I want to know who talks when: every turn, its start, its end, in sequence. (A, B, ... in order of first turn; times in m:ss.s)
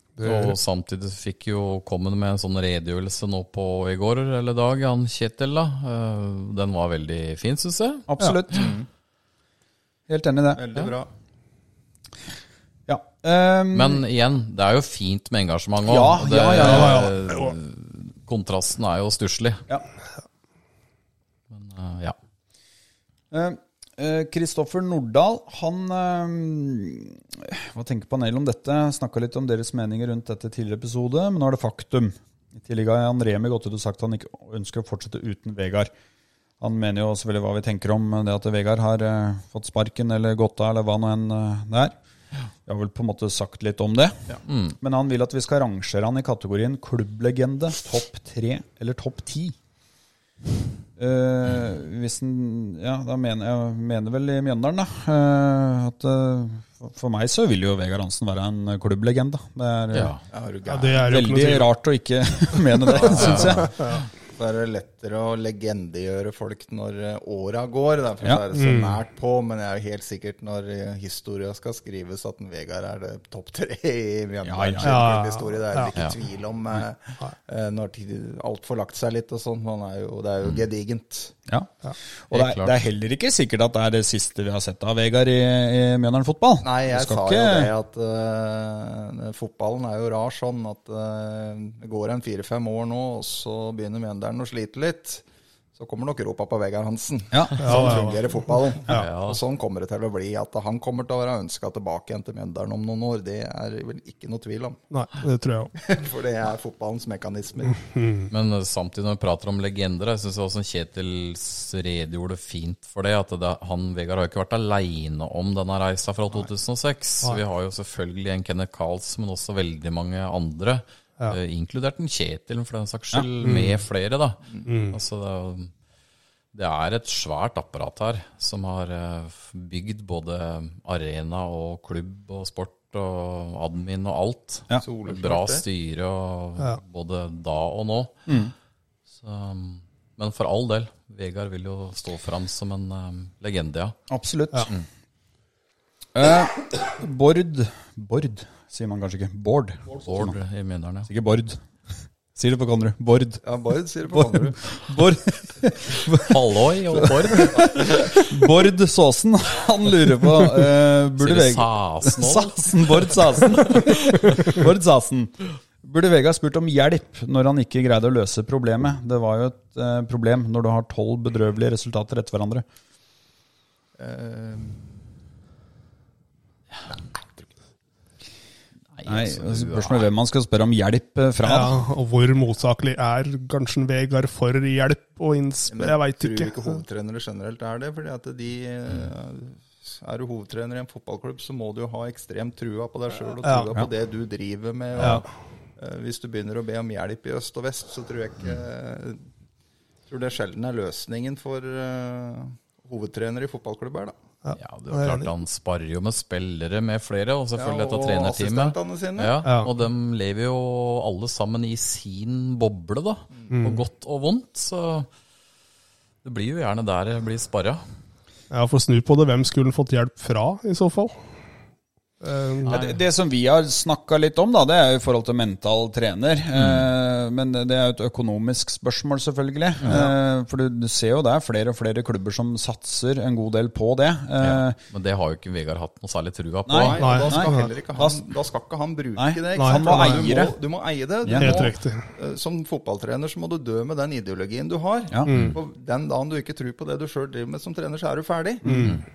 0:00.2-0:00.6 A
0:00.2-0:08.1 B
0:08.1-0:08.7 C
0:08.5-0:08.9 D
0:10.1-0:10.6 C
0:10.5-0:11.1 D
0:12.9-0:14.0 C
0:13.7-0:19.6 B
0:15.8-0:17.1 C
0:16.6-0:17.5 A
0:21.5-0:22.1 B
0:23.3-0:35.9 C
0:36.6-0:41.9 C
0:42.6-0:49.6 C
0:44.4-0:44.8 B
0:51.0-1:00.1 C
0:59.9-1:00.2 B
1:00.3-1:01.1 D
1:00.7-1:01.7 A
1:01.0-1:03.7 C
1:03.0-1:04.0 B
1:03.3-1:04.0 A
1:04.3-1:21.3 D
1:08.2-1:08.5 C
1:08.5-1:09.0 A
1:14.4-1:15.0 C
1:14.8-1:15.9 A
1:22.3-1:27.7 C
1:22.3-1:22.8 B
1:26.6-1:35.2 D
1:35.7-1:44.8 D
1:37.3-1:38.0 C
1:37.6-1:39.0 A
1:38.9-1:39.4 B
1:44.9-1:45.7 A
1:45.8-1:47.9 D
1:47.9-1:48.3 A
1:48.3-2:05.7 B
2:03.4-2:03.8 A
2:04.7-2:05.0 A
2:06.5-2:18.2 B
2:14.8-2:15.6 D
2:18.3-2:18.5 C
2:19.2-2:24.0 B
2:24.1-2:24.7 C
2:26.1-2:30.3 C
2:30.0-2:31.1 B
2:31.1-2:31.6 C
2:32.3-2:33.4 C
2:33.4-2:34.6 D
2:34.1-2:36.4 C
2:36.2-2:38.2 B
2:36.9-2:52.6 C
2:41.2-2:44.3 B
2:54.0-2:54.8 D
2:58.9-3:00.1 B
2:59.0-3:01.8 C
3:01.4-3:06.8 A
3:05.7-3:19.2 D
3:13.4-3:13.7 A
3:15.0-3:15.2 B
3:15.0-3:15.2 A
3:20.1-3:24.1 D
3:24.4-3:25.3 A
3:24.5-3:35.1 B
3:27.6-3:29.4 D
3:29.4-3:29.7 A
3:33.5-3:33.8 A
3:36.2-3:37.8 B
3:38.5-3:41.1 A
3:42.2-3:42.8 A
3:42.7-3:54.8 C
3:46.5-3:46.9 B
3:49.8-3:50.0 B
3:54.4-3:57.0 B
3:56.7-3:58.2 C
3:56.8-4:08.8 D
3:57.0-3:57.7 A
3:59.2-4:00.6 C
3:59.5-4:00.4 A
4:01.2-4:01.7 C
4:01.3-4:02.1 A
4:05.3-4:05.6 A
4:05.3-4:05.6 B
4:08.6-4:09.0 A
4:08.6-4:09.0 C